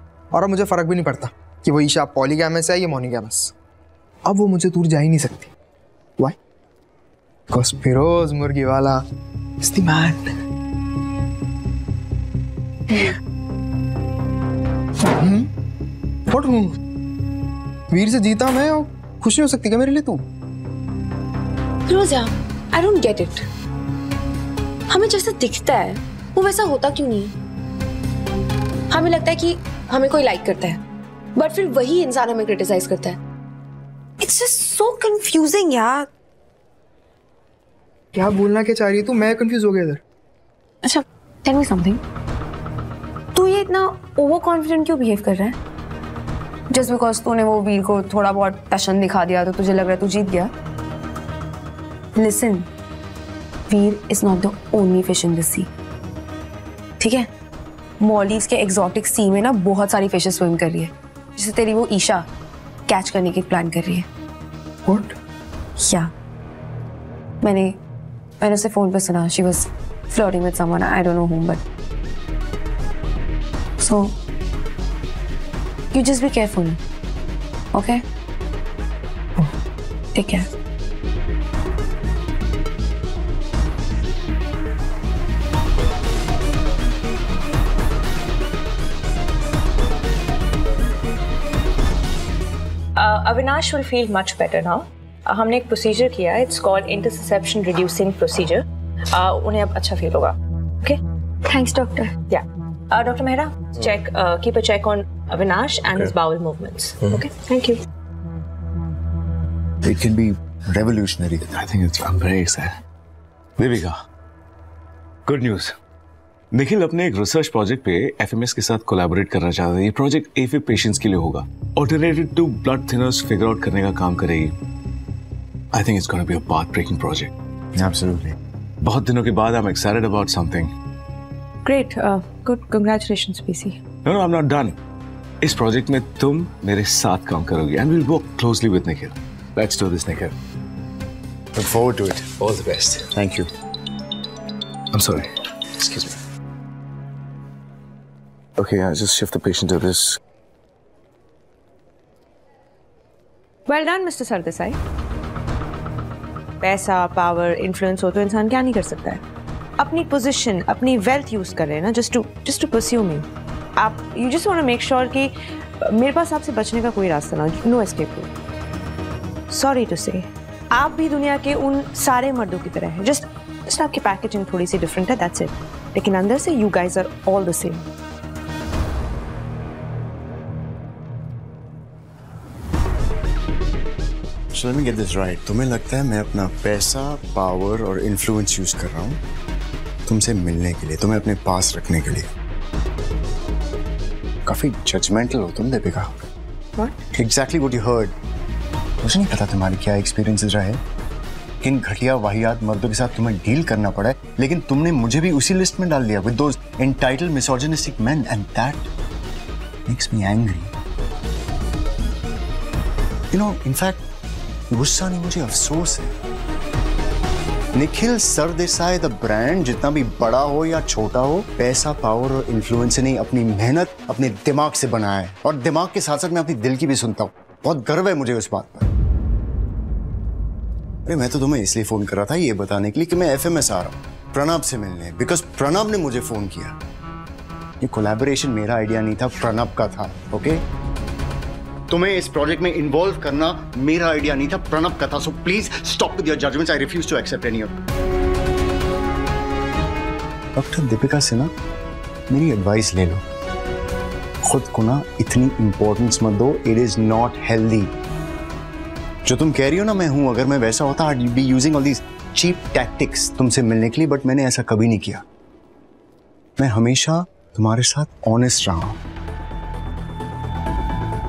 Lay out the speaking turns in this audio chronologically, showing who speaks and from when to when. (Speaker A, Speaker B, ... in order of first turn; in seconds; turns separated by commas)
Speaker A: 0.3-3.5, Speaker A: 4.3-5.5, Speaker A: 7.5-9.0, Speaker A: 9.6-10.3, Speaker A: 15.1-15.5, Speaker A: 16.3-16.8, Speaker A: 17.9-20.2, Speaker B: 21.9-23.4, Speaker B: 24.9-27.3, Speaker B: 28.9-30.8, Speaker B: 31.4-33.2, Speaker B: 34.2-36.1, Speaker A: 38.1-40.0, Speaker B: 40.8-42.0, Speaker B: 43.3-45.6, Speaker B: 46.7-50.5, Speaker B: 52.2-52.7, Speaker B: 53.7-55.7, Speaker B: 57.0-57.3, Speaker B: 58.0-62.3, Speaker B: 62.9-64.1, Speaker A: 64.9-65.2, Speaker B: 65.8-66.1, Speaker B: 67.4-67.8, Speaker B: 68.4-71.6, Speaker B: 73.8-74.1, Speaker B: 75.9-76.8, Speaker B: 77.7-78.0, Speaker B: 80.1-80.5, Speaker C: 93.0-101.0, Speaker C: 102.3-107.8, Speaker D: 109.8-111.5, Speaker E: 111.4-112.8, Speaker E: 113.6-114.0, Speaker E: 115.3-115.8, Speaker E: 116.5-124.5, Speaker E: 125.7-127.3, Speaker D: 127.8-128.4, Speaker E: 128.8-130.7, Speaker C: 131.7-133.8, Speaker E: 134.0-134.8, Speaker E: 135.4-140.3, Speaker D: 141.6-142.3, Speaker E: 142.3-143.1, Speaker D: 143.1-143.5, Speaker E: 144.9-146.1, Speaker E: 148.6-150.2, Speaker C: 153.7-154.8, Speaker C: 156.6-159.2, Speaker C: 159.8-168.3, Speaker C: 169.5-177.8, Speaker D: 184.5-189.2, Speaker D: 190.1-192.3, Speaker D: 194.4-196.3, Speaker D: 197.1-198.2, Speaker D: 199.0-200.8, Speaker D: 201.6-208.9, Speaker D: 209.9-210.7, Speaker D: 213.3-214.1, Speaker D: 214.7-216.2, Speaker D: 217.7-228.9, Speaker D: 231.1-236.8, Speaker D: 237.8-240.6, Speaker D: 241.9-247.7, Speaker D: 250.6-251.5, Speaker D: 252.3-253.2, Speaker D: 254.4-257.9, Speaker D: 259.2-265.2, Speaker D: 266.6-269.0